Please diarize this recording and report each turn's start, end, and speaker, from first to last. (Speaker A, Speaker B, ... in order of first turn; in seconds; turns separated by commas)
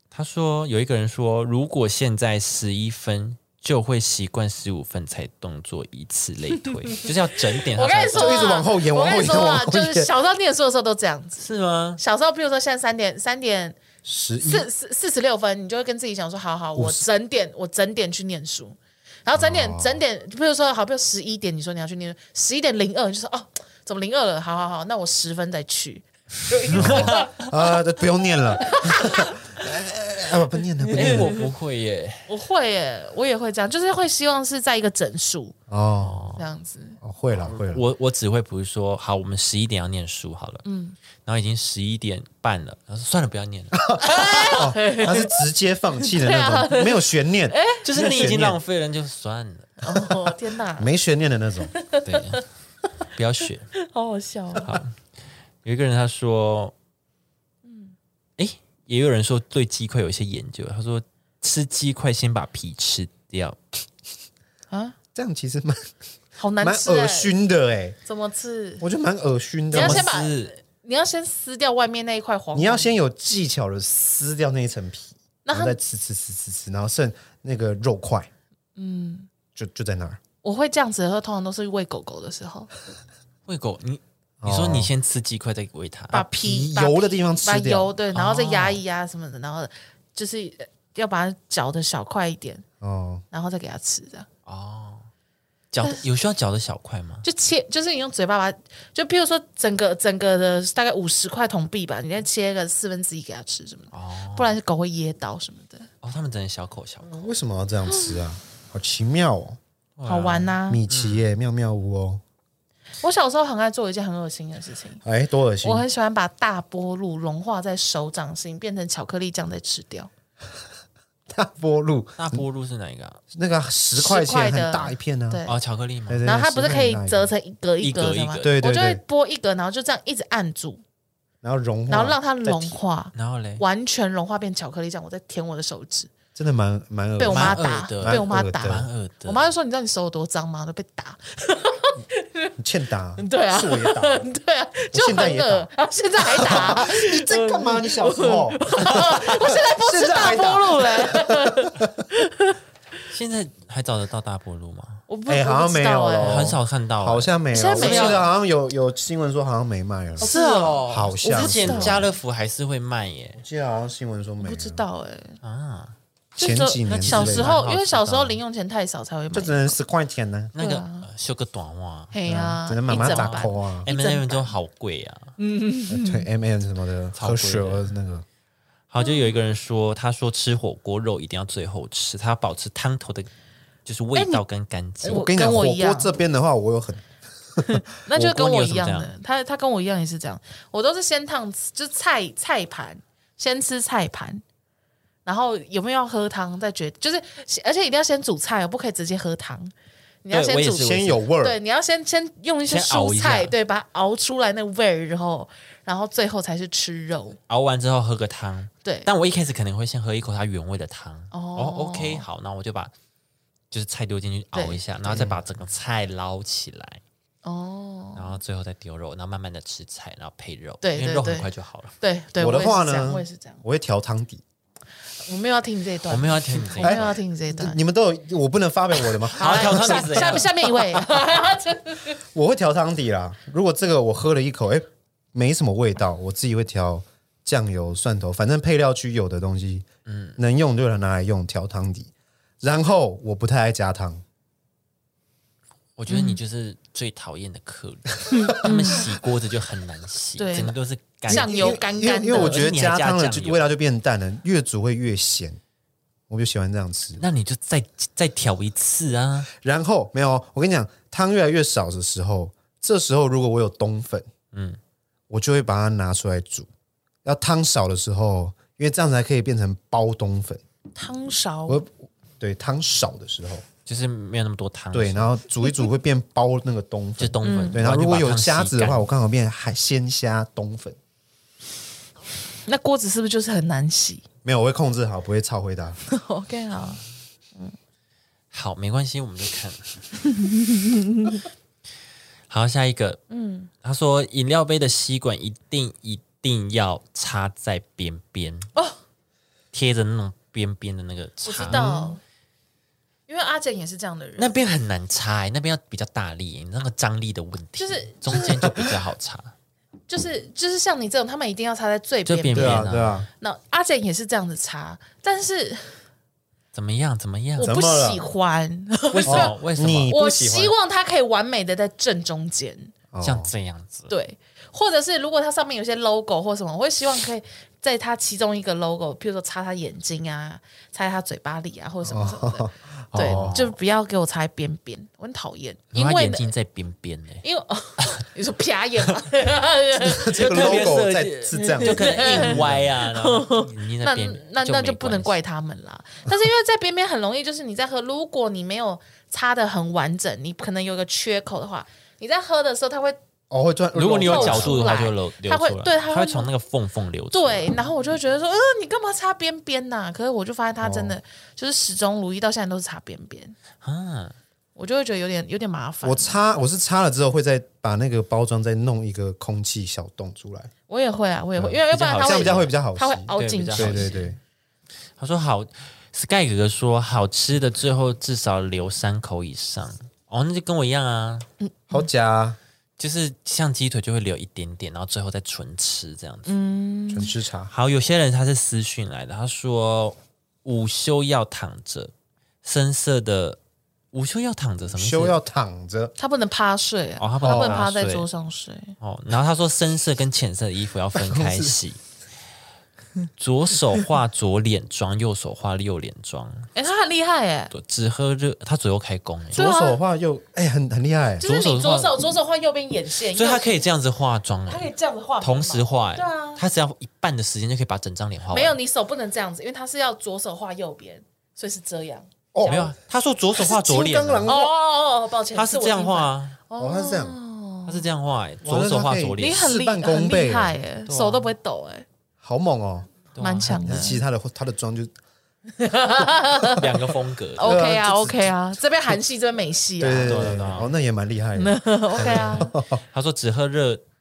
Speaker A: 0.1-8.6, Speaker B: 6.7-11.4, Speaker C: 8.1-10.1, Speaker A: 11.4-12.0, Speaker B: 12.0-13.8, Speaker C: 14.0-14.7, Speaker B: 14.4-27.5, Speaker C: 16.7-17.0, Speaker C: 19.4-20.0, Speaker A: 26.7-27.5, Speaker C: 26.7-31.4, Speaker B: 28.6-29.4, Speaker B: 30.8-31.4, Speaker A: 30.9-32.3, Speaker B: 32.3-35.5, Speaker C: 35.7-36.3, Speaker A: 36.0-36.4, Speaker B: 36.4-37.0, Speaker C: 37.0-37.8, Speaker A: 37.3-40.6, Speaker B: 40.6-41.0, Speaker A: 41.2-44.6, Speaker C: 43.8-48.6, Speaker B: 44.0-45.4, Speaker B: 46.0-47.8, Speaker A: 47.8-49.9, Speaker B: 49.8-50.9, Speaker C: 50.8-51.7, Speaker B: 51.7-52.4, Speaker A: 52.0-52.4, Speaker A: 53.1-53.7, Speaker B: 53.7-54.8, Speaker A: 54.6-55.0, Speaker A: 55.6-56.7, Speaker B: 57.6-57.9, Speaker A: 58.4-63.6, Speaker B: 64.7-65.0, Speaker C: 65.1-65.9, Speaker B: 66.4-67.3, Speaker C: 66.6-68.0, Speaker B: 68.0-68.8, Speaker C: 68.8-70.1, Speaker B: 69.7-72.9, Speaker A: 69.7-70.5, Speaker C: 72.5-78.3, Speaker B: 75.4-75.8, Speaker B: 78.8-79.3, Speaker C: 79.5-80.2, Speaker B: 80.4-82.7, Speaker A: 83.5-86.2, Speaker C: 84.4-84.9, Speaker C: 86.1-87.9, Speaker B: 86.1-92.6, Speaker A: 88.1-88.8, Speaker C: 92.8-93.2, Speaker B: 93.3-94.3, Speaker A: 94.5-95.0, Speaker A: 95.7-97.2, Speaker B: 97.2-105.9, Speaker A: 103.9-104.5, Speaker A: 106.0-107.3, Speaker C: 107.0-109.6, Speaker B: 107.9-108.2, Speaker A: 110.0-111.2, Speaker B: 110.0-110.8, Speaker C: 110.7-112.2, Speaker B: 113.0-115.0, Speaker C: 115.0-115.9, Speaker B: 115.6-120.1, Speaker C: 121.3-122.4, Speaker A: 122.2-123.2, Speaker C: 123.3-125.4, Speaker B: 123.9-125.5, Speaker A: 125.5-126.2, Speaker C: 126.1-127.3, Speaker B: 126.2-130.8, Speaker A: 127.8-128.6, Speaker C: 128.4-129.0, Speaker C: 131.4-132.5, Speaker B: 131.9-136.1, Speaker A: 133.1-133.6, Speaker C: 136.3-138.9, Speaker B: 137.2-142.5, Speaker A: 137.3-139.4, Speaker C: 142.6-144.2, Speaker B: 143.2-152.6, Speaker C: 144.9-145.7, Speaker C: 146.2-152.0, Speaker A: 153.1-155.0, Speaker B: 155.1-156.6, Speaker C: 155.3-160.3, Speaker A: 156.2-158.3, Speaker B: 157.5-158.3, Speaker B: 160.2-162.2, Speaker A: 160.2-163.4, Speaker C: 160.8-162.1, Speaker C: 163.3-164.8, Speaker B: 164.4-165.4, Speaker A: 165.4-165.9, Speaker C: 166.3-167.6, Speaker B: 166.4-169.8, Speaker A: 166.8-168.4, Speaker C: 169.3-170.5, Speaker A: 170.5-175.3, Speaker B: 170.6-171.1, Speaker B: 172.1-174.5, Speaker C: 172.3-173.9, Speaker B: 175.4-176.3, Speaker C: 175.9-178.2, Speaker A: 177.2-177.9, Speaker A: 178.9-183.3, Speaker B: 179.0-179.3, Speaker A: 183.8-185.2, Speaker B: 184.1-184.4, Speaker C: 185.0-187.6, Speaker B: 185.1-186.1, Speaker B: 187.6-194.4, Speaker A: 188.1-189.1, Speaker B: 195.2-199.7, Speaker B: 200.2-207.4, Speaker A: 200.3-201.2, Speaker C: 200.8-201.6, Speaker A: 202.7-203.5, Speaker A: 207.5-212.9, Speaker B: 208.8-209.1, Speaker B: 211.3-212.2, Speaker A: 213.7-217.0, Speaker B: 214.5-215.3, Speaker B: 217.4-218.3, Speaker A: 218.2-221.9, Speaker B: 220.8-221.5, Speaker B: 222.0-223.6, Speaker C: 222.4-224.4, Speaker B: 225.2-227.8, Speaker A: 226.1-227.2, Speaker C: 226.8-230.6, Speaker A: 229.3-230.7, Speaker B: 229.3-232.2, Speaker C: 232.3-239.8, Speaker A: 240.1-240.4, Speaker C: 240.4-242.1, Speaker C: 242.6-244.2, Speaker A: 246.0-253.7, Speaker B: 246.1-246.4, Speaker B: 248.3-249.1, Speaker B: 250.4-252.7, Speaker C: 251.3-255.6, Speaker C: 256.3-257.2, Speaker A: 257.2-259.5, Speaker C: 259.5-264.3, Speaker A: 264.5-264.8, Speaker C: 265.3-266.7, Speaker C: 267.2-270.6, Speaker B: 270.9-271.8, Speaker C: 271.7-273.6, Speaker A: 273.9-275.3, Speaker C: 274.9-281.0, Speaker A: 277.2-279.1, Speaker B: 277.4-277.8, Speaker B: 282.6-284.2, Speaker C: 284.4-286.0, Speaker B: 286.1-287.0, Speaker A: 288.5-290.1, Speaker B: 290.2-291.5, Speaker A: 292.5-293.2, Speaker B: 293.3-293.7, Speaker A: 293.8-298.7, Speaker A: 299.7-302.1, Speaker B: 301.4-302.2, Speaker C: 301.7-302.1, Speaker B: 303.3-304.5, Speaker A: 304.4-309.5, Speaker B: 307.8-308.7, Speaker C: 308.6-308.9, Speaker B: 310.1-316.0, Speaker A: 312.2-313.2, Speaker C: 312.5-313.3, Speaker A: 316.7-317.7, Speaker B: 317.6-322.9, Speaker C: 317.6-318.2, Speaker A: 319.1-320.1, Speaker C: 319.2-320.8, Speaker C: 323.1-323.5, Speaker A: 323.2-324.1, Speaker B: 324.1-336.5, Speaker C: 332.0-333.6, Speaker A: 333.1-333.8, Speaker A: 335.9-337.4, Speaker B: 337.4-341.0, Speaker C: 340.0-342.9, Speaker A: 340.1-345.4, Speaker B: 341.5-353.2, Speaker C: 353.5-354.9, Speaker A: 353.9-357.7, Speaker B: 354.2-356.5, Speaker B: 357.3-363.6, Speaker C: 360.8-361.1, Speaker A: 363.8-364.4, Speaker B: 364.8-366.3, Speaker C: 366.0-370.7, Speaker B: 370.9-374.2, Speaker C: 371.6-374.4, Speaker A: 371.9-372.7, Speaker A: 373.3-374.3, Speaker A: 375.2-381.5, Speaker B: 381.6-382.1, Speaker C: 381.9-382.6, Speaker A: 383.0-386.5, Speaker B: 386.4-387.3, Speaker C: 387.1-387.7, Speaker A: 387.7-392.1, Speaker A: 392.6-393.6, Speaker A: 394.1-395.4, Speaker C: 394.9-396.1, Speaker B: 396.2-398.9, Speaker A: 397.2-398.3, Speaker C: 397.4-397.9, Speaker A: 399.0-402.0, Speaker C: 401.1-401.8, Speaker A: 403.4-406.7, Speaker B: 406.7-407.7, Speaker A: 407.7-409.6, Speaker C: 409.5-411.4, Speaker B: 409.5-410.0, Speaker B: 411.4-413.8, Speaker A: 411.4-412.2, Speaker A: 413.3-418.8, Speaker B: 414.7-416.6, Speaker B: 418.5-422.9, Speaker C: 422.5-422.9, Speaker A: 422.6-424.5, Speaker C: 423.6-424.7, Speaker B: 424.4-428.0, Speaker A: 425.5-426.6, Speaker C: 426.8-427.4, Speaker A: 427.9-429.8, Speaker C: 428.6-430.8, Speaker B: 429.4-432.1, Speaker A: 431.1-431.5, Speaker C: 432.4-433.1, Speaker A: 433.3-433.9, Speaker B: 433.4-434.2, Speaker C: 433.7-435.1, Speaker B: 435.7-437.0, Speaker A: 436.7-437.7, Speaker B: 437.6-440.7, Speaker C: 437.6-438.5, Speaker C: 440.0-443.0, Speaker A: 440.2-440.9, Speaker B: 441.6-442.7, Speaker A: 442.2-444.0